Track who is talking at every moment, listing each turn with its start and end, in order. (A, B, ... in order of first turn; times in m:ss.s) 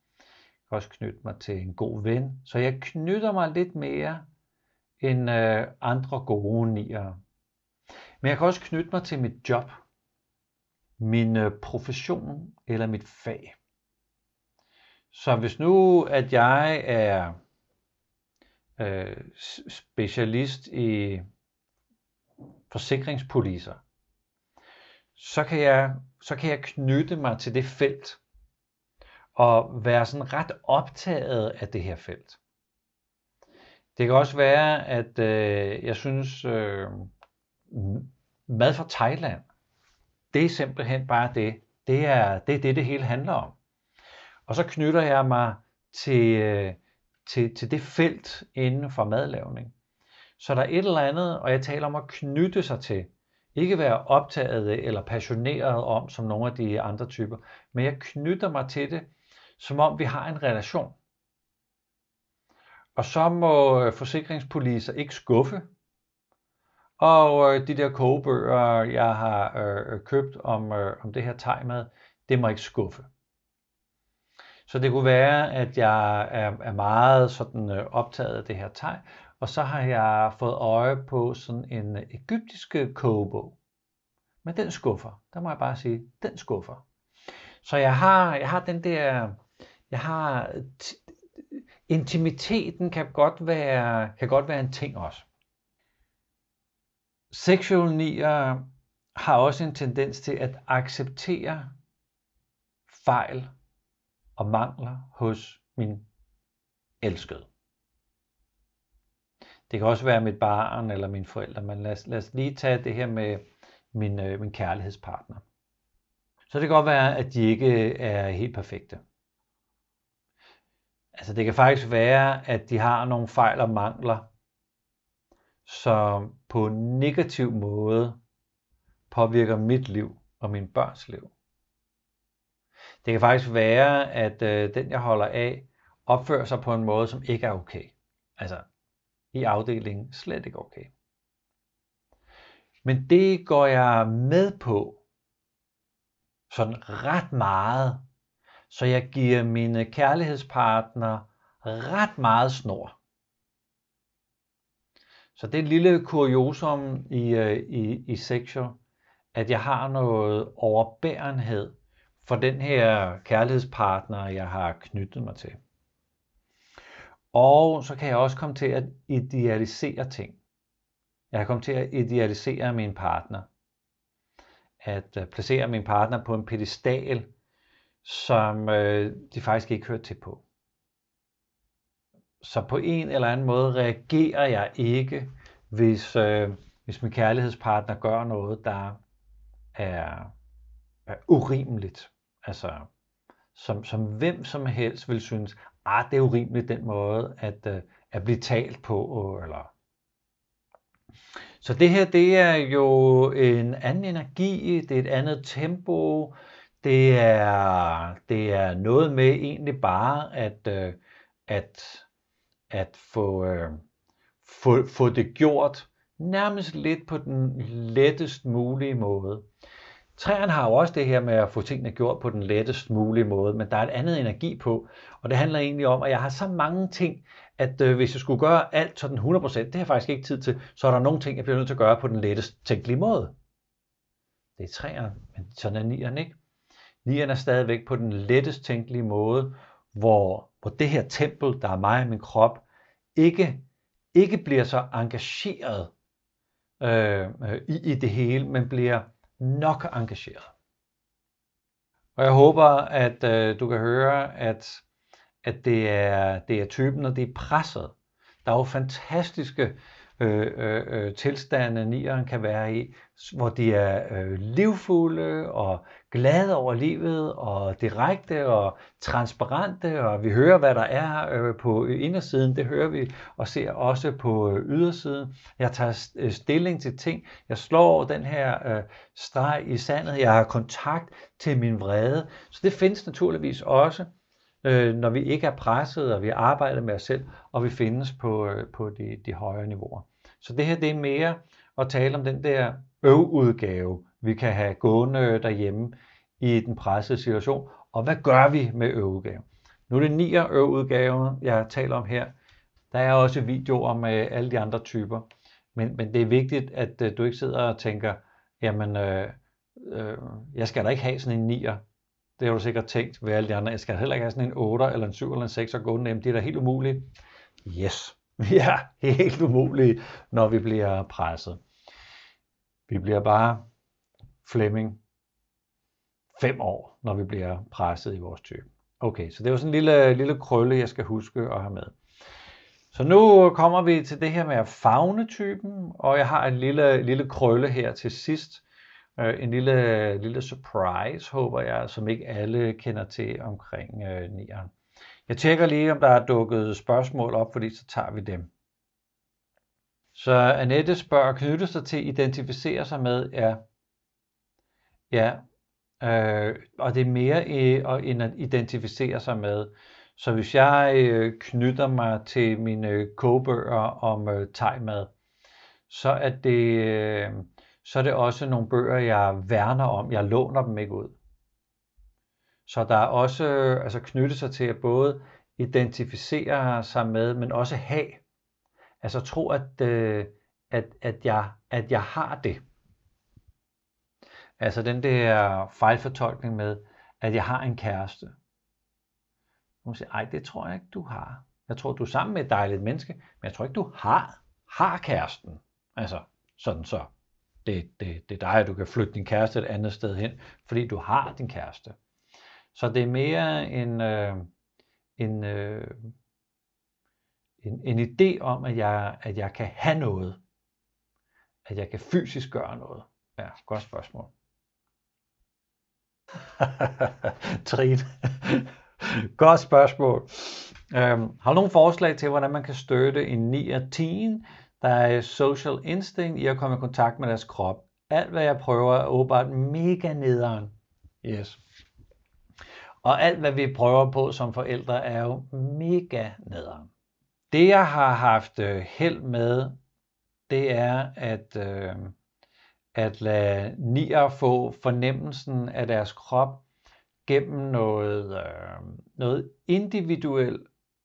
0:00.7-0:04.2 A
0:05.0-0:07.2 A
0:08.2-0:09.8 A
0:11.0-0:13.6 A
0:15.1-0:17.4 A
0:18.8-0:21.2 A
0:22.7-0:23.8 A
0:25.2-0:28.2 A
0:29.4-0:32.4 A
0:34.0-0:37.1 A
0:37.7-0:39.4 A
0:40.3-0:43.6 A
0:44.5-0:49.7 A
0:50.4-0:59.1 A
0:59.6-1:01.0 A
1:03.0-1:05.7 A
1:07.0-1:13.1 A
1:14.7-1:23.6 A
1:24.4-1:26.8 A
1:27.6-1:29.4 A
1:29.9-1:35.3 A
1:37.3-1:41.7 A
1:42.9-1:43.5 A
1:44.4-1:46.0 A
1:47.0-1:47.5 A
1:49.7-1:55.4 A
1:56.5-1:59.0 A
2:01.1-2:04.3 A
2:05.6-2:08.2 A
2:09.1-2:11.3 A
2:13.0-2:18.7 A
2:19.3-2:20.9 A
2:22.8-2:25.0 A
2:26.5-2:28.0 A
2:28.7-2:33.0 A
2:35.4-2:38.8 A
2:39.3-2:45.6 A
2:47.3-2:50.4 A
2:51.3-2:53.5 A
2:54.8-2:57.3 A
2:58.0-3:00.4 A
3:02.4-3:09.0 A
3:09.8-3:10.3 A
3:11.1-3:12.9 A
3:13.5-3:19.7 A
3:21.6-3:32.1 A
3:32.7-3:33.8 A
3:34.4-3:39.4 A
3:40.2-3:53.3 A
3:54.6-3:56.4 A
3:57.0-4:02.6 A
4:03.2-4:03.6 A
4:04.1-4:05.9 A
4:06.8-4:10.5 A
4:12.2-4:14.8 A
4:15.4-4:17.9 A
4:18.4-4:44.1 A
4:44.6-5:02.3 A
5:02.9-5:11.8 A
5:12.4-5:17.1 A
5:17.6-5:21.6 A
5:22.9-5:23.6 A
5:24.4-5:25.0 A
5:26.4-5:31.9 A
5:32.9-5:38.6 A
5:39.2-5:44.7 A
5:45.3-5:48.5 A
5:50.2-5:53.6 A
5:55.1-5:55.4 A
5:56.0-6:05.1 A
6:05.9-6:11.2 A
6:12.7-6:18.2 A
6:19.0-6:22.6 A
6:24.6-6:28.4 A
6:29.8-6:37.1 A
6:37.6-6:42.0 A
6:42.7-6:44.5 A
6:45.2-6:46.1 A
6:47.6-6:50.4 A
6:51.7-6:54.3 A
6:56.6-6:58.7 A
6:59.2-7:11.6 A
7:13.0-7:16.9 A
7:17.5-7:19.8 A
7:20.5-7:22.2 A
7:23.0-7:26.6 A
7:27.2-7:30.6 A